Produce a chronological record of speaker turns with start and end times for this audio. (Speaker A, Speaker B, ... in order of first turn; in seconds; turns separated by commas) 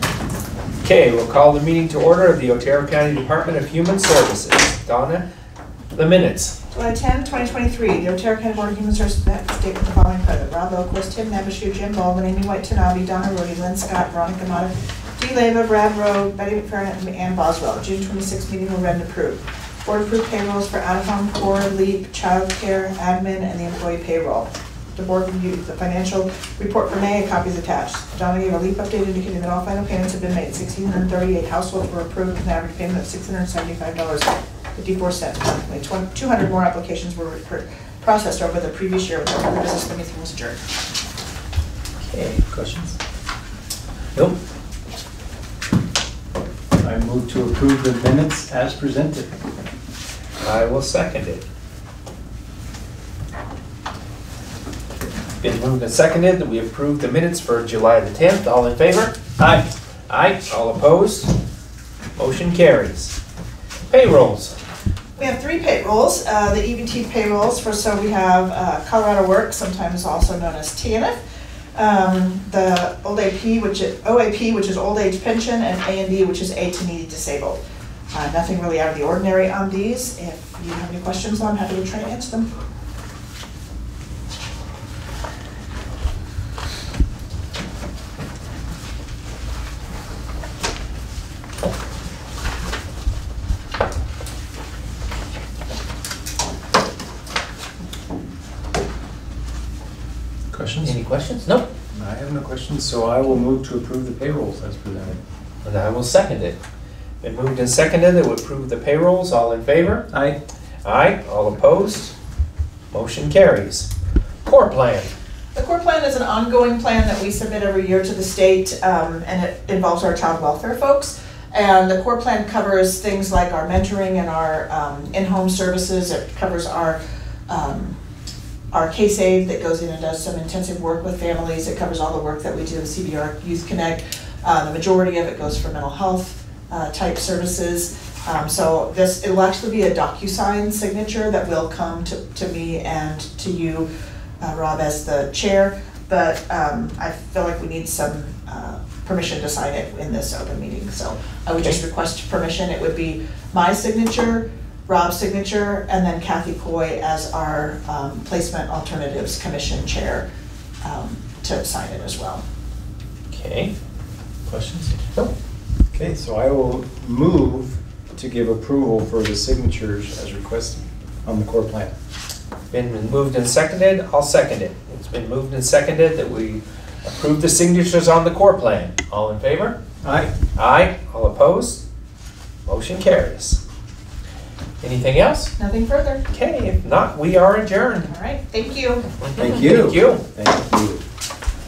Speaker A: 0.8-5.2, Speaker A: 5.9-6.6, Speaker B: 6.7-40.6, Speaker A: 42.1-42.4, Speaker C: 42.4-43.0, Speaker C: 46.8-49.3, Speaker A: 50.4-51.4, Speaker A: 55.4-59.1, Speaker C: 59.4-59.7, Speaker A: 60.1-61.3, Speaker A: 62.2-63.1, Speaker A: 63.9-64.6, Speaker B: 65.2-71.2, Speaker B: 71.8-77.6, Speaker B: 78.1-82.5, Speaker C: 100.5-101.0, Speaker A: 100.8-101.7, Speaker C: 101.9-105.2, Speaker A: 105.6-106.6, Speaker A: 107.2-110.1, Speaker C: 110.1-110.4, Speaker A: 110.8-112.1, Speaker A: 112.9-113.9, Speaker A: 114.5-115.1, Speaker B: 115.5-128.0, Speaker B: 128.7-143.9, Speaker B: 144.4-160.3, Speaker B: 160.8-162.4, Speaker A: 163.3-163.7, Speaker C: 164.5-164.9, Speaker C: 165.9-171.9, Speaker A: 172.7-179.8, Speaker C: 180.0-180.3, Speaker A: 180.5-181.8, Speaker A: 182.7-183.6, Speaker A: 184.8-185.5, Speaker B: 185.6-186.2, Speaker A: 186.3-188.1, Speaker B: 188.1-189.1, Speaker A: 189.2-190.2, Speaker C: 189.4-191.0